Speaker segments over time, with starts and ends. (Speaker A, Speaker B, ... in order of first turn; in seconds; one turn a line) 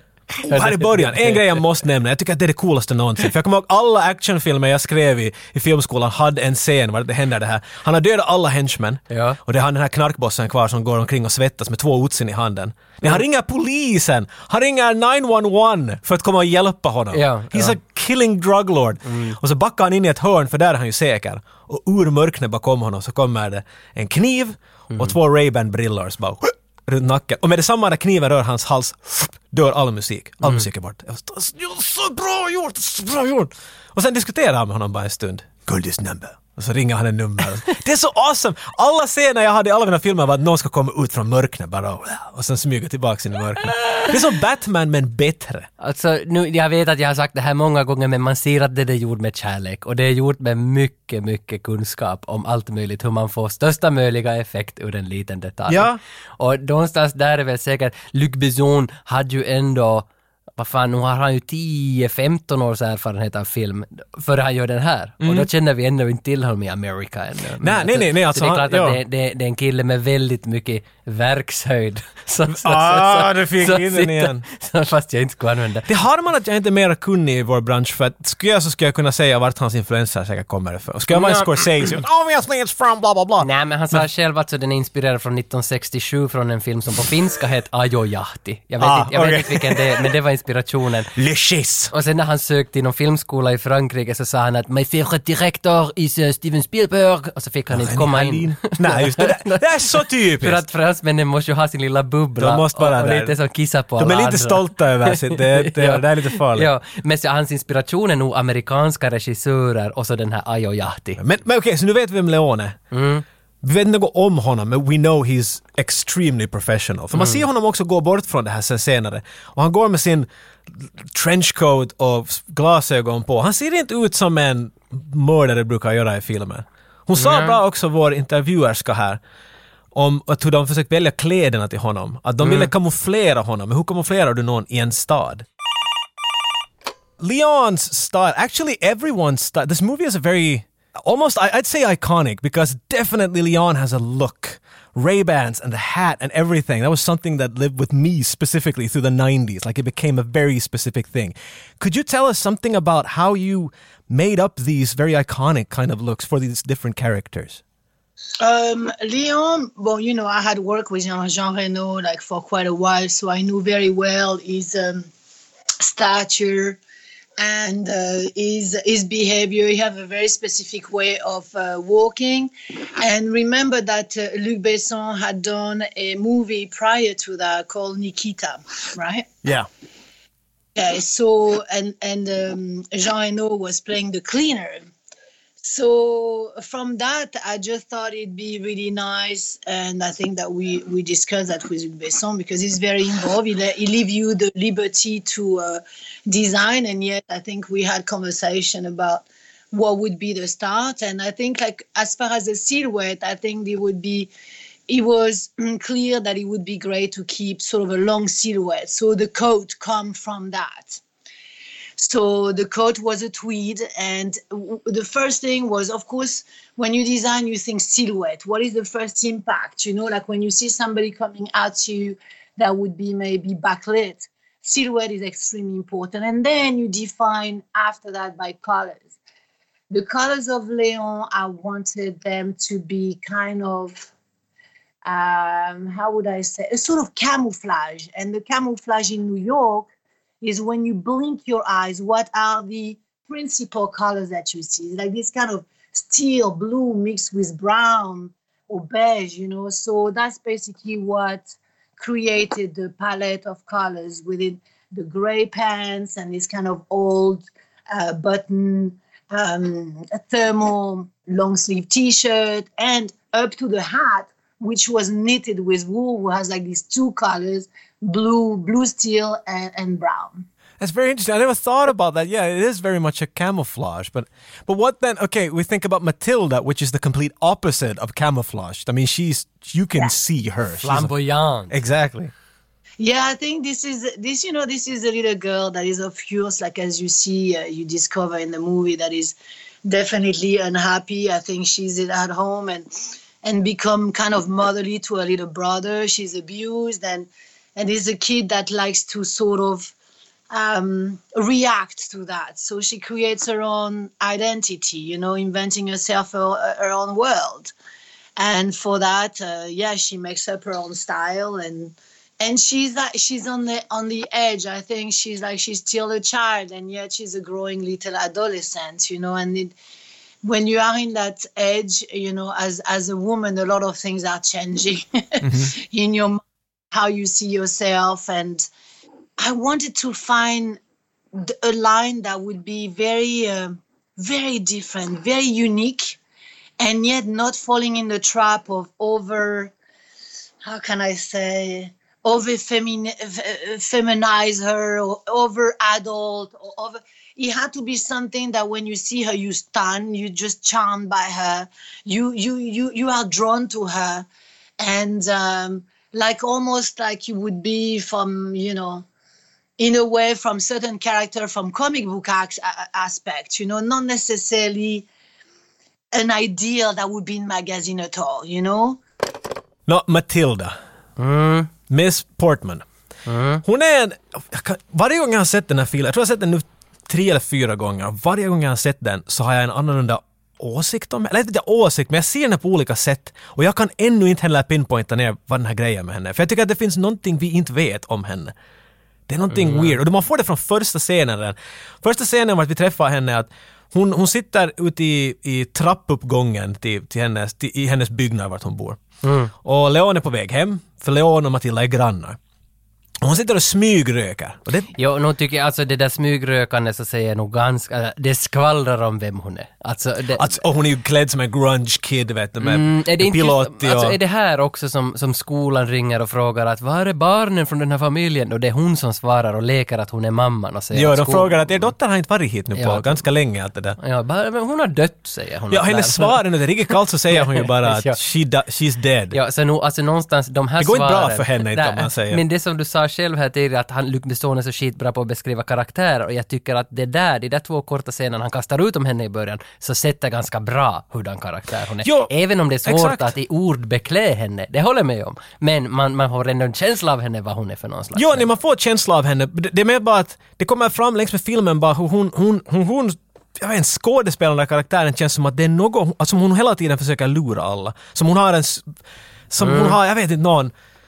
Speaker A: 0.4-1.6
Speaker B: 0.5-45.7
Speaker A: 9.1-9.4
Speaker A: 17.1-17.8
Speaker A: 19.1-19.4
Speaker A: 45.8-75.9
Speaker B: 55.7-56.0
Speaker B: 65.2-65.5
Speaker B: 67.6-69.0
Speaker B: 72.5-74.4
Speaker B: 75.8-84.0
Speaker A: 81.1-81.9
Speaker A: 83.4-91.1
Speaker B: 88.8-90.0
Speaker B: 91.1-91.9
Speaker A: 91.9-99.6
Speaker B: 97.7-100.6
Speaker A: 100.4-111.2
Speaker B: 102.4-103.4
Speaker B: 104.0-106.7
Speaker B: 111.2-112.8
Speaker A: 112.9-113.2
Speaker B: 113.6-120.3
Speaker A: 117.1-117.4
Speaker B: 120.8-129.2
Speaker A: 127.2-127.6
Speaker B: 129.9-135.4
Speaker A: 132.4-132.7
Speaker B: 137.2-157.6
Speaker C: 158.4-165.1
Speaker C: 165.8-166.8
Speaker C: 167.4-179.3
Speaker C: 180.7-184.8
Speaker C: 185.6-204.3
Speaker C: 204.9-211.0
Speaker C: 212.0-229.1
Speaker C: 229.9-234.1
Speaker C: 235.0-239.9
Speaker C: 240.4-270.4
Speaker B: 270.8-281.1
Speaker A: 280.8-281.8
Speaker B: 281.7-282.3
Speaker C: 283.0-292.9
Speaker C: 293.4-299.9
Speaker C: 300.5-307.7
Speaker C: 308.4-319.7
Speaker C: 320.4-326.4
Speaker B: 325.4-325.7
Speaker C: 326.9-328.7
Speaker C: 329.4-330.8
Speaker C: 331.3-336.2
Speaker C: 336.8-339.7
Speaker C: 340.6-354.2
Speaker C: 354.8-359.0
Speaker C: 359.8-365.1
Speaker C: 366.1-369.0
Speaker B: 369.9-370.8
Speaker A: 371.2-371.7
Speaker B: 371.9-372.8
Speaker A: 373.2-373.6
Speaker B: 373.6-388.5
Speaker B: 389.3-399.0
Speaker A: 389.5-390.0
Speaker A: 399.2-399.5
Speaker B: 399.6-402.4
Speaker B: 403.2-404.9
Speaker A: 404.9-410.5
Speaker B: 410.4-414.2
Speaker A: 412.6-421.7
Speaker B: 420.9-424.0
Speaker A: 422.7-423.2
Speaker A: 424.0-426.4
Speaker B: 425.7-429.4
Speaker A: 427.3-428.2
Speaker A: 429.3-448.5
Speaker B: 430.8-432.4
Speaker B: 442.0-442.3
Speaker B: 442.8-443.3
Speaker B: 448.1-458.9
Speaker B: 459.5-460.7
Speaker A: 459.6-459.9